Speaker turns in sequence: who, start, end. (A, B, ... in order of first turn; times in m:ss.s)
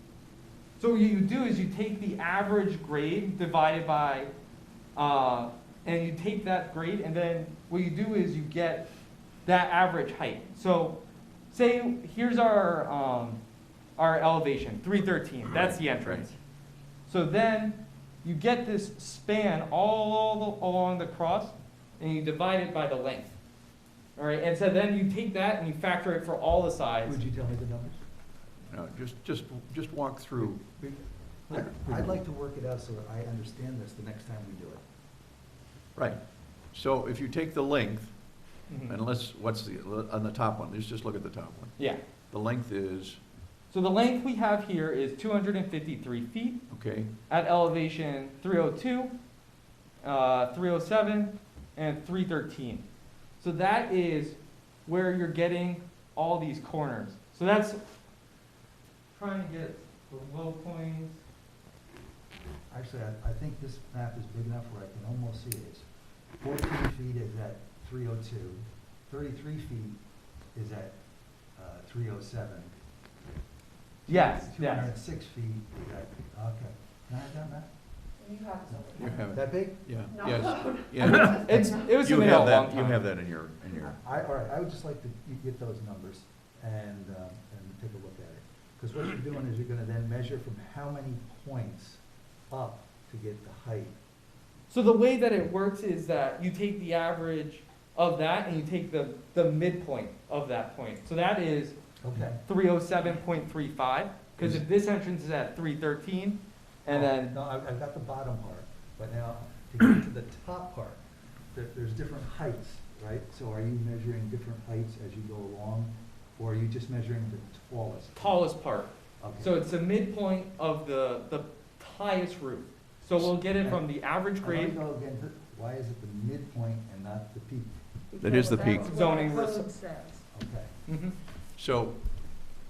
0:00.8-0:04.3 A
0:05.0-0:08.9 A
0:09.4-0:13.4 A
0:14.0-0:16.4 A
0:15.5-0:16.3 B
0:17.1-0:23.4 A
0:24.2-0:27.2 A
0:27.0-0:28.0 C
0:28.7-0:30.6 B
0:30.4-0:34.8 C
0:36.7-0:38.1 B
0:38.7-0:39.0 A
0:38.8-0:41.8 B
0:42.3-0:43.2 B
0:43.7-0:46.6 A
0:46.7-0:47.1 B
0:47.3-0:49.1 A
0:50.0-0:52.8 A
0:53.4-0:57.8 A
0:59.1-1:01.2 A
1:02.7-1:05.8 C
1:06.4-1:10.0 C
1:10.5-1:11.0 C
1:11.6-1:12.7 C
1:14.0-1:17.7 C
1:14.1-1:14.9 A
1:18.2-1:19.2 D
1:19.0-1:24.0 B
1:19.2-1:19.8 C
1:20.1-1:21.6 D
1:21.0-1:21.9 C
1:21.1-1:23.0 A
1:23.8-1:34.0 C
1:34.7-1:41.8 A
1:42.0-1:42.4 C
1:42.4-1:47.4 A
1:46.9-1:51.0 C
1:51.5-1:58.4 C
1:58.1-2:04.8 A
1:59.2-1:59.6 C
2:03.6-2:03.9 C
2:04.4-2:07.8 C
2:08.1-2:10.2 D
2:08.2-2:09.1 B
2:08.6-2:09.7 A
2:10.3-2:10.8 C
2:10.9-2:11.1 A
2:11.6-2:12.0 B